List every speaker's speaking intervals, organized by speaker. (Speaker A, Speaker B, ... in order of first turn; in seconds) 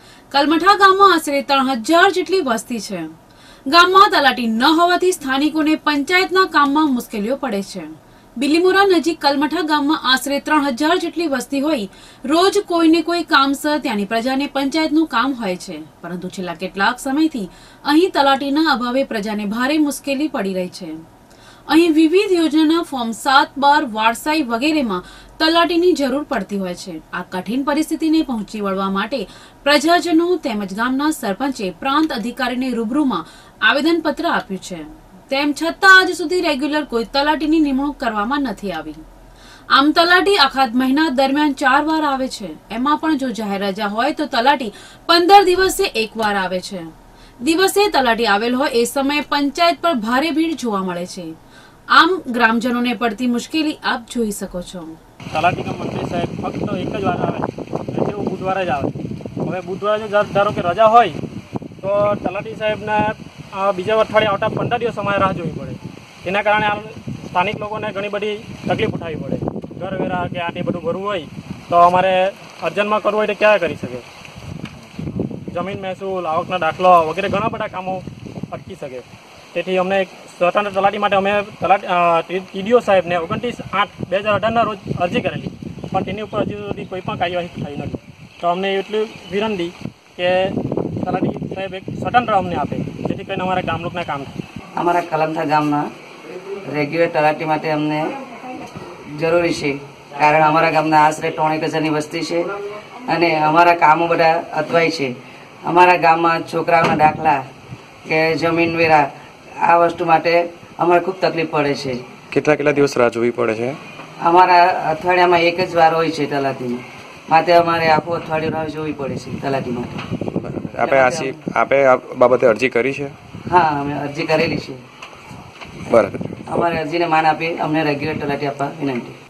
Speaker A: 0.3-3.1, 3.7-21.0, 21.7-39.0, 39.7-46.9, 47.4-51.3, 51.9-55.0
Speaker B: 55.3-61.2, 61.8-74.0, 75.5-94.4
Speaker C: 94.8-95.9, 96.6-98.2, 98.9-102.5, 103.1-105.1, 105.7-107.4, 108.1-109.1, 109.6-112.0, 114.2-120.0, 120.8-121.4, 123.5-124.8, 126.5-129.1
Speaker D: 112.3-113.8, 120.3-123.1, 125.9-126.3